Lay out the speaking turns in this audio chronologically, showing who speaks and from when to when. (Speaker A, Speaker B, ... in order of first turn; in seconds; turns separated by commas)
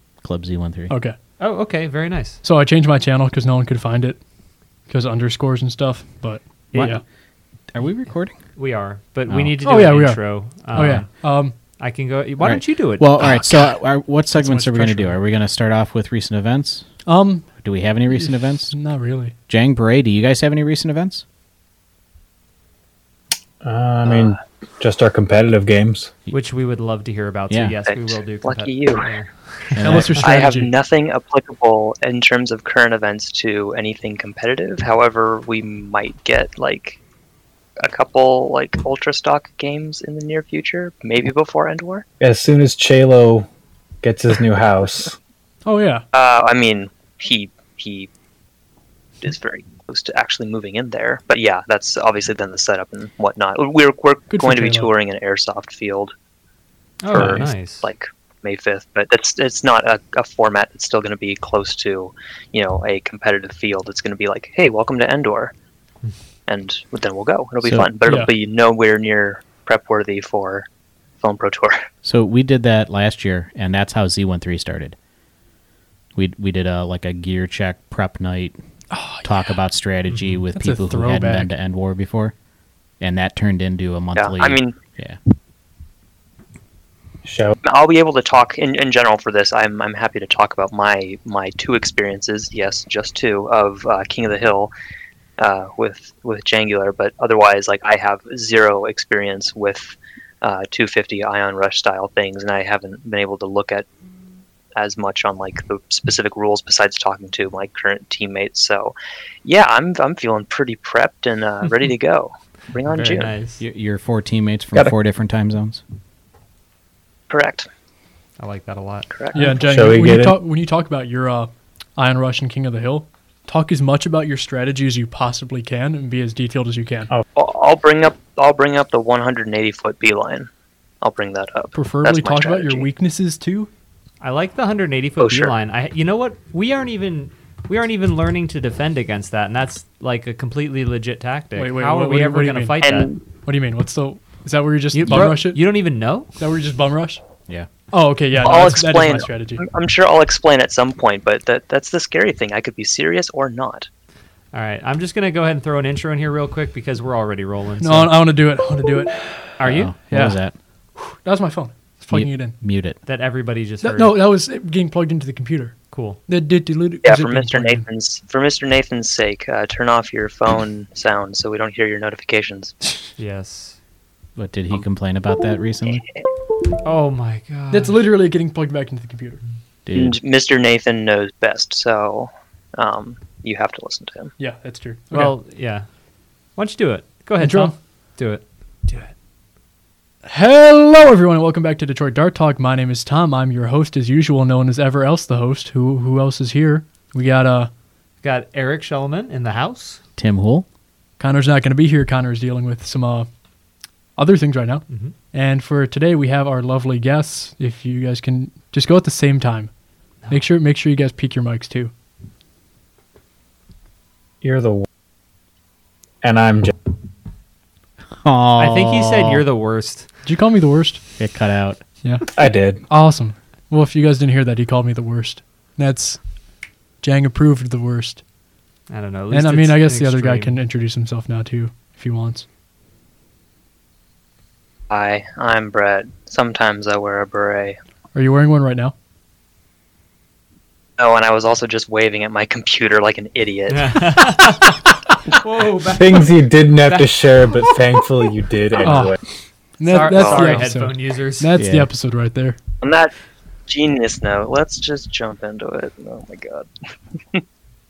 Speaker A: 0.2-0.9, Speaker B: 0.9-1.2, Speaker C: 1.4-2.4, Speaker B: 2.4-4.2, Speaker B: 4.9-7.0, Speaker C: 6.7-7.0, Speaker A: 6.7-7.0, Speaker A: 7.7-8.4, Speaker C: 8.6-11.3, Speaker A: 9.3-9.5, Speaker B: 9.6-11.5, Speaker A: 10.7-11.1, Speaker C: 11.8-13.2, Speaker A: 12.4-16.9, Speaker B: 14.3-15.2, Speaker B: 17.1-17.5, Speaker A: 17.6-18.8, Speaker B: 18.1-19.4, Speaker A: 19.5-21.2, Speaker D: 23.6-26.1, Speaker E: 24.0-24.3, Speaker C: 26.3-30.2, Speaker A: 27.5-27.8, Speaker E: 27.9-29.1, Speaker A: 29.7-30.2, Speaker B: 29.8-30.7, Speaker E: 30.2-37.0, Speaker E: 37.8-42.1, Speaker D: 42.2-43.5, Speaker D: 44.0-45.2, Speaker B: 45.7-46.0, Speaker E: 46.1-48.1, Speaker E: 49.2-56.1, Speaker B: 54.3-54.9, Speaker C: 57.0-57.9, Speaker B: 57.1-57.5, Speaker E: 57.1-65.5, Speaker E: 66.5-70.7, Speaker A: 67.6-67.9, Speaker B: 68.1-68.3, Speaker E: 71.2-71.9, Speaker A: 72.0-75.0, Speaker A: 76.2-78.6, Speaker B: 78.9-79.5, Speaker A: 79.2-82.3, Speaker C: 80.1-80.4, Speaker B: 80.5-81.5, Speaker A: 83.0-85.2, Speaker E: 84.2-84.8, Speaker D: 87.2-87.6, Speaker E: 87.6-94.7, Speaker E: 95.4-103.9, Speaker E: 104.8-113.3, Speaker C: 112.9-113.6, Speaker A: 113.6-115.8, Speaker E: 117.3-117.7, Speaker C: 118.4-119.1, Speaker E: 119.1-119.6, Speaker B: 119.3-127.1, Speaker D: 119.5-120.4, Speaker E: 127.4-130.5, Speaker E: 131.0-132.9, Speaker B: 131.8-133.7, Speaker C: 134.2-143.1, Speaker E: 135.2-135.5, Speaker B: 141.6-142.8, Speaker E: 142.8-143.2, Speaker B: 143.4-145.6, Speaker C: 144.9-146.3, Speaker B: 146.4-147.2, Speaker B: 147.9-149.6, Speaker E: 148.4-153.9, Speaker C: 154.5-158.2, Speaker B: 157.8-160.4, Speaker C: 159.6-159.9, Speaker A: 159.7-160.6, Speaker B: 161.0-162.6, Speaker A: 162.1-163.0, Speaker C: 163.1-164.2, Speaker B: 163.8-167.9, Speaker C: 165.9-166.2, Speaker E: 167.0-173.0, Speaker C: 173.2-173.8, Speaker A: 174.4-176.0, Speaker C: 176.8-178.0, Speaker B: 177.7-179.4, Speaker A: 179.9-180.2, Speaker E: 179.9-184.3, Speaker B: 184.4-185.3, Speaker C: 185.1-185.9, Speaker C: 186.6-189.1, Speaker B: 187.4-187.7, Speaker B: 190.3-197.7, Speaker C: 198.2-200.0, Speaker A: 200.2-200.7, Speaker B: 201.2-203.3, Speaker B: 204.2-209.7, Speaker C: 204.9-205.2, Speaker B: 210.3-211.9, Speaker D: 214.4-214.9, Speaker D: 216.2-216.7, Speaker A: 218.2-219.4, Speaker C: 218.6-220.1, Speaker B: 220.2-221.0, Speaker A: 221.2-221.8, Speaker D: 222.4-222.8, Speaker B: 222.9-226.2, Speaker B: 227.0-228.2, Speaker C: 228.9-230.6, Speaker B: 229.3-232.5, Speaker E: 234.9-237.8, Speaker B: 238.1-238.9, Speaker E: 241.0-244.1, Speaker C: 243.7-246.3, Speaker D: 245.8-249.2, Speaker C: 246.8-247.8, Speaker B: 248.8-249.2, Speaker B: 249.8-252.6, Speaker C: 249.9-251.5, Speaker E: 249.9-250.7, Speaker A: 251.6-251.9, Speaker E: 252.8-253.1, Speaker E: 253.7-256.7